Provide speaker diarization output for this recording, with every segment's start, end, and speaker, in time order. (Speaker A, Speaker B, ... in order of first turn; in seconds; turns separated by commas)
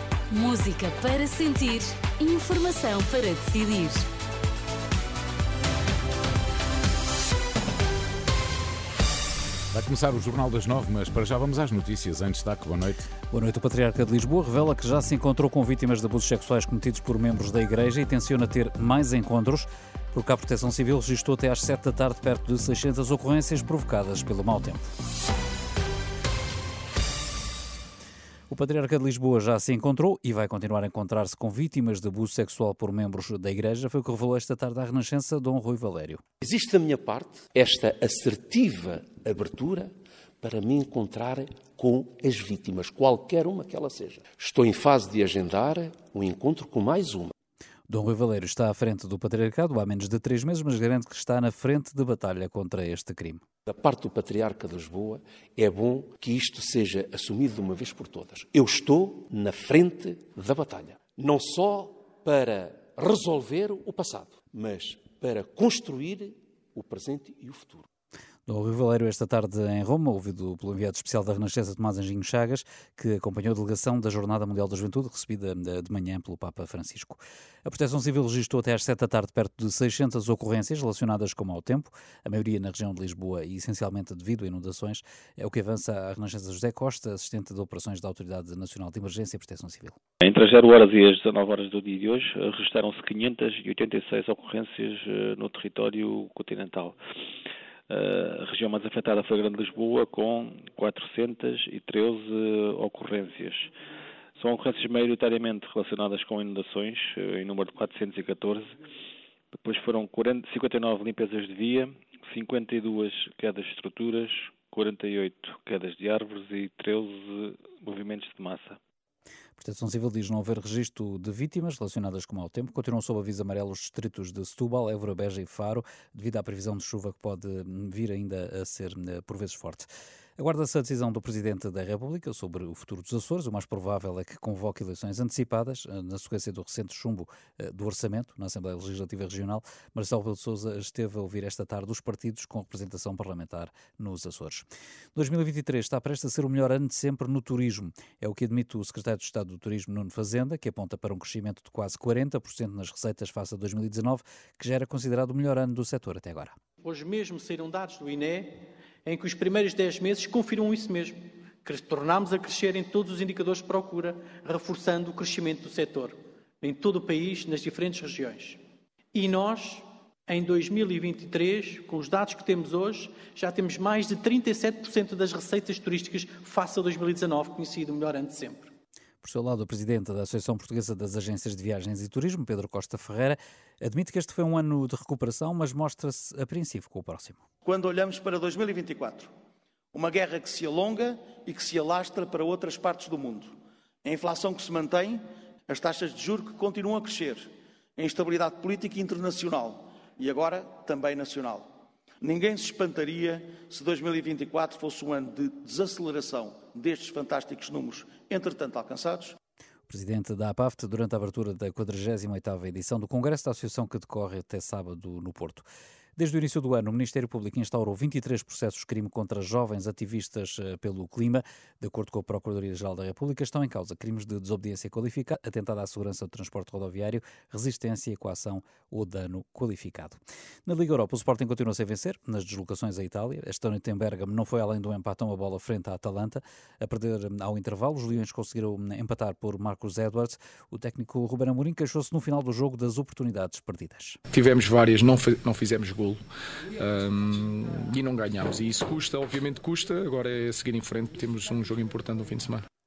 Speaker A: 0.3-4.1, Speaker B: 9.7-13.1, Speaker C: 13.3-24.8, Speaker C: 28.5-36.2, Speaker D: 36.4-47.3, Speaker C: 47.9-53.4, Speaker D: 53.7-67.9, Speaker C: 68.5-90.0, Speaker E: 90.2-97.0, Speaker E: 97.9-103.7, Speaker E: 104.4-108.8, Speaker E: 109.5-118.8, Speaker C: 119.6-129.9, Speaker C: 130.4-156.6, Speaker F: 156.8-168.6, Speaker F: 169.1-178.7, Speaker C: 179.2-187.4, Speaker G: 187.7-189.3, Speaker G: 189.9-193.5, Speaker G: 194.0-201.7, Speaker G: 202.2-209.4, Speaker C: 209.9-215.7, Speaker C: 216.2-244.2, Speaker H: 244.3-246.2, Speaker H: 246.8-252.7